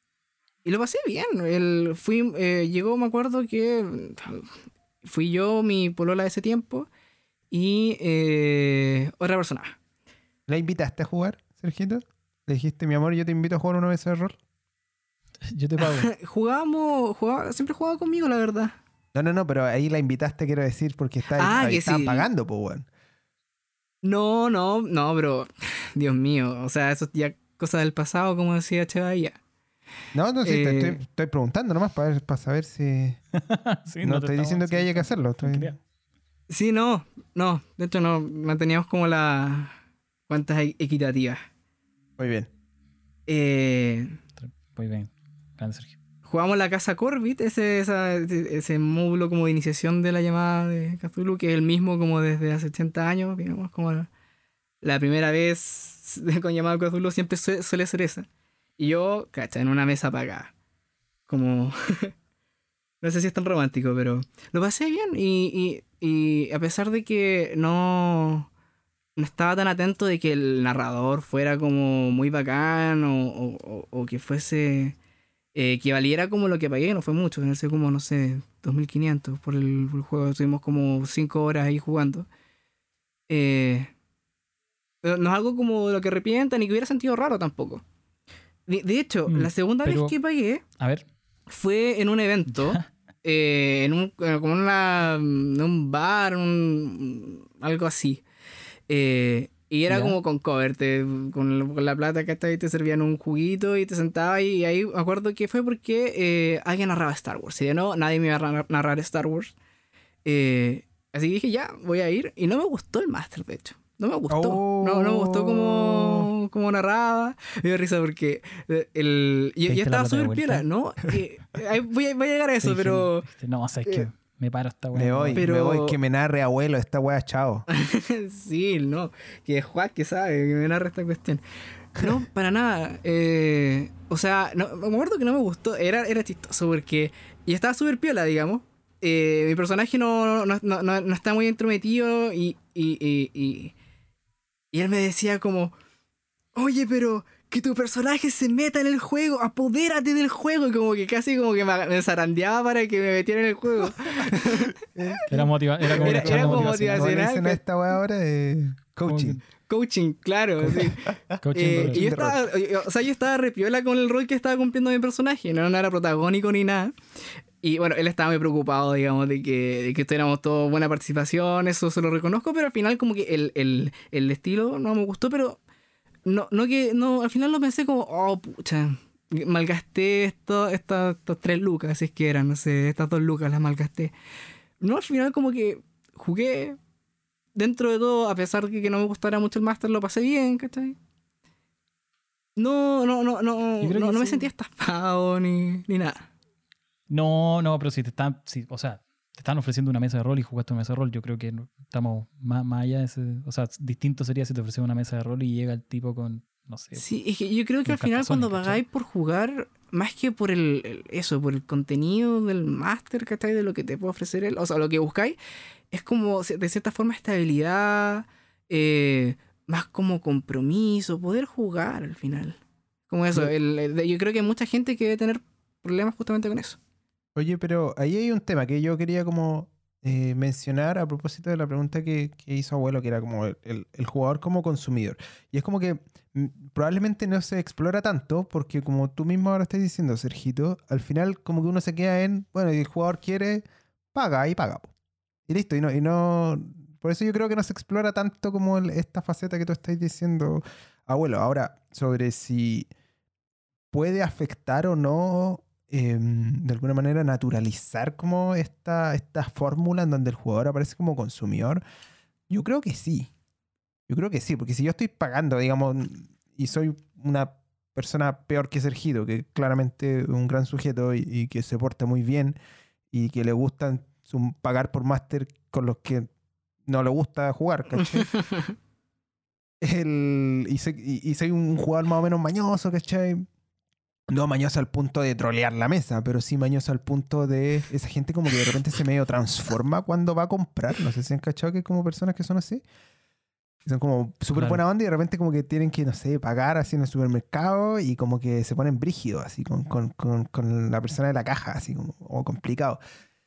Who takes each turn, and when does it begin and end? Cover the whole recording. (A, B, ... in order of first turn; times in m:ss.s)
0:00.6-0:04.5 A
0:05.0-0:06.9 A
0:07.5-0:09.8 A
0:10.5-0:14.4 B
0:15.4-0:16.1 C
0:15.8-0:18.8 A
0:19.1-0:22.9 B
0:21.4-0:22.3 A
0:24.0-0:29.4 A
0:30.1-0:33.2 B
0:30.4-0:31.0 A
0:33.3-0:35.8 C
0:34.0-0:35.8 B
0:36.5-0:39.7 A
0:40.3-0:41.4 A
0:42.2-0:42.5 B
0:43.3-0:44.2 A
0:44.4-0:46.0 C
0:46.2-0:54.1 A
0:54.8-0:58.3 A
0:58.8-1:00.5 A
1:01.3-1:02.1 A
1:03.0-1:08.5 A
1:09.2-1:15.0 A
1:15.5-1:22.3 A
1:23.3-1:23.9 A
1:25.0-1:27.8 A
1:28.7-1:30.6 A
1:29.3-1:30.1 C
1:30.8-1:31.0 C
1:31.5-1:38.2 A
1:32.5-1:32.9 C
1:38.9-1:49.5 A
1:39.9-1:40.2 C
1:50.2-2:03.2 A
1:54.3-1:56.3 B
1:59.7-2:00.6 C
2:02.6-2:05.4 C
2:04.9-2:07.6 B
2:05.3-2:06.0 A
2:07.7-2:11.4 A
2:11.9-2:23.7 A
2:24.7-2:25.7 A
2:26.5-2:35.2 A
2:34.2-2:35.3 B
2:35.3-2:37.1 C
2:35.9-2:37.6 A
2:35.9-2:39.4 B
2:39.0-2:39.4 C
2:39.6-2:41.0 A
2:40.7-2:42.4 B
2:41.4-2:42.2 C
2:41.5-2:46.9 A
2:47.6-2:55.6 A
2:56.2-3:04.1 A
3:04.8-3:06.8 A
3:07.5-3:11.0 A
3:12.6-3:16.3 A
3:13.8-3:14.5 C
3:17.1-3:27.0 C
3:27.0-3:35.4 A
3:27.8-3:28.8 C
3:35.9-3:42.6 A
3:43.1-3:46.8 A
3:47.4-4:04.9 B
4:05.5-4:12.9 B
4:13.9-4:21.8 B
4:22.5-4:23.3 B
4:24.1-4:32.6 B
4:33.1-4:36.3 B
4:36.8-4:38.3 B
4:38.3-4:38.7 A
4:39.8-4:43.5 B
4:44.3-4:52.8 B
4:53.8-5:03.0 B
4:54.5-4:54.8 C